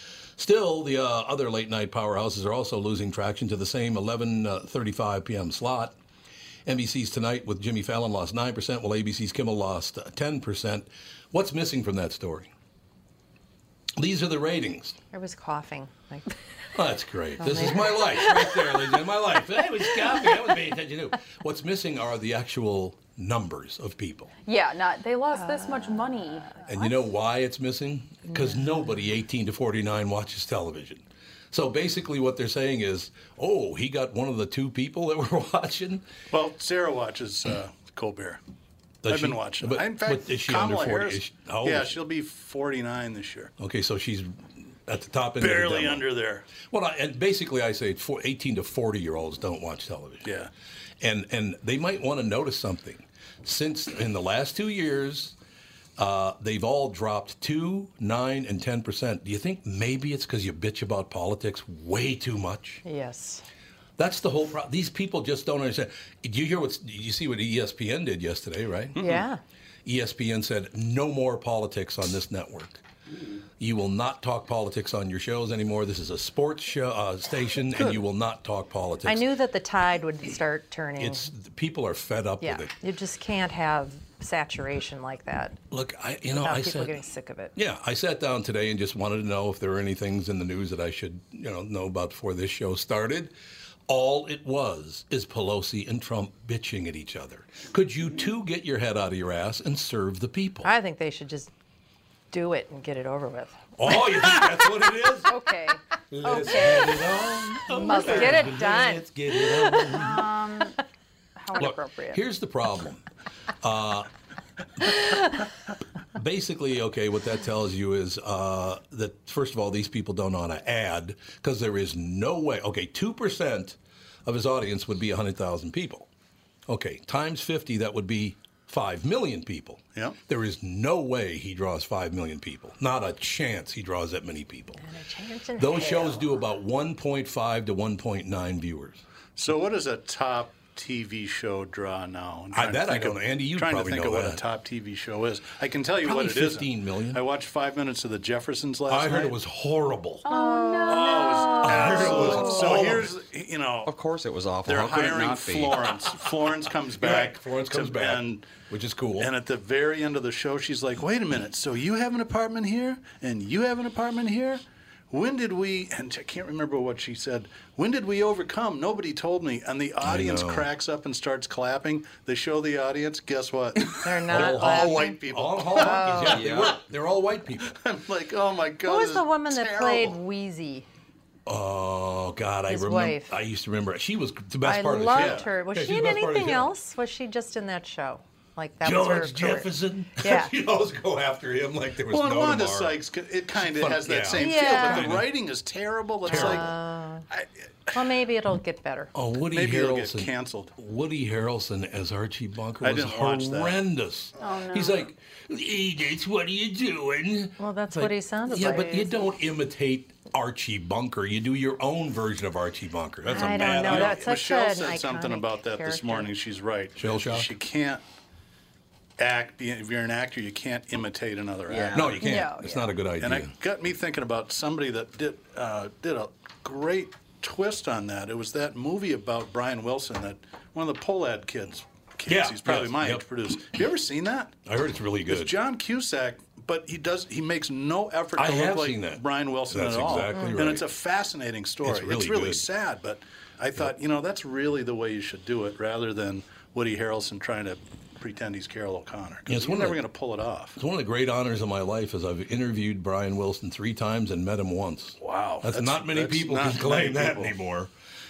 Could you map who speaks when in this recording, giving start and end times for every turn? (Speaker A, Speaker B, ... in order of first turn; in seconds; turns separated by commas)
Speaker A: 0.4-6.0, Speaker A: 6.7-12.5, Speaker A: 14.0-15.0, Speaker B: 15.1-16.4, Speaker A: 16.7-24.3, Speaker B: 17.4-18.9, Speaker C: 24.4-26.7, Speaker B: 25.5-25.8, Speaker A: 26.7-36.0, Speaker B: 28.3-28.6, Speaker D: 36.3-38.4, Speaker A: 39.0-42.0, Speaker D: 39.1-43.5, Speaker A: 43.6-46.1, Speaker D: 45.4-46.5, Speaker A: 46.6-50.3, Speaker D: 50.2-50.5, Speaker A: 51.0-55.4, Speaker A: 56.0-62.8, Speaker B: 62.8-63.4, Speaker A: 64.0-69.0, Speaker D: 69.0-69.2, Speaker B: 69.0-69.4, Speaker A: 69.8-72.8, Speaker A: 73.6-79.3, Speaker D: 77.7-78.0, Speaker B: 79.0-81.3, Speaker A: 81.0-82.7, Speaker B: 82.4-85.6, Speaker A: 85.7-87.0, Speaker B: 86.3-87.5, Speaker A: 87.5-93.3, Speaker A: 93.9-100.7, Speaker B: 100.6-101.5, Speaker B: 102.3-104.4, Speaker A: 103.8-105.3, Speaker C: 105.2-108.5, Speaker A: 106.1-110.3, Speaker B: 107.8-109.9, Speaker C: 109.8-110.8, Speaker C: 111.4-112.2, Speaker A: 111.6-113.0, Speaker A: 113.6-114.1, Speaker A: 116.1-126.1, Speaker A: 126.7-134.8, Speaker B: 134.8-136.4, Speaker A: 135.6-139.0, Speaker D: 139.4-149.3, Speaker A: 142.5-144.4, Speaker A: 146.0-147.2, Speaker A: 148.9-150.2, Speaker C: 150.2-151.8, Speaker B: 150.3-152.9, Speaker D: 150.9-153.9, Speaker A: 151.6-153.1, Speaker E: 153.8-155.9, Speaker D: 154.7-158.5, Speaker A: 156.9-159.3, Speaker D: 159.2-176.4, Speaker A: 170.0-170.7, Speaker B: 174.0-175.2, Speaker A: 174.3-177.8, Speaker B: 175.7-176.4, Speaker E: 176.3-176.8, Speaker D: 177.7-180.2, Speaker B: 178.8-180.9, Speaker A: 181.4-186.7, Speaker B: 182.7-183.4, Speaker B: 184.6-190.5, Speaker D: 185.1-185.4, Speaker A: 188.8-193.0, Speaker D: 192.1-196.7, Speaker A: 193.5-195.3, Speaker B: 194.3-195.2, Speaker B: 196.2-197.2, Speaker A: 196.3-196.7, Speaker D: 197.3-197.9, Speaker B: 197.9-199.1, Speaker A: 199.1-214.3, Speaker D: 199.5-200.7, Speaker D: 202.8-203.8, Speaker C: 204.4-205.1, Speaker B: 207.6-209.1, Speaker B: 213.3-216.3, Speaker D: 213.3-218.0, Speaker A: 217.0-217.5, Speaker D: 219.2-222.2, Speaker A: 221.9-223.5, Speaker C: 222.2-222.9, Speaker D: 223.2-234.6, Speaker A: 232.3-233.2, Speaker A: 234.7-235.5, Speaker D: 235.3-250.8, Speaker A: 238.3-240.9, Speaker B: 240.3-240.6, Speaker A: 241.8-242.7, Speaker A: 249.5-250.0, Speaker A: 250.8-257.9, Speaker D: 255.2-257.6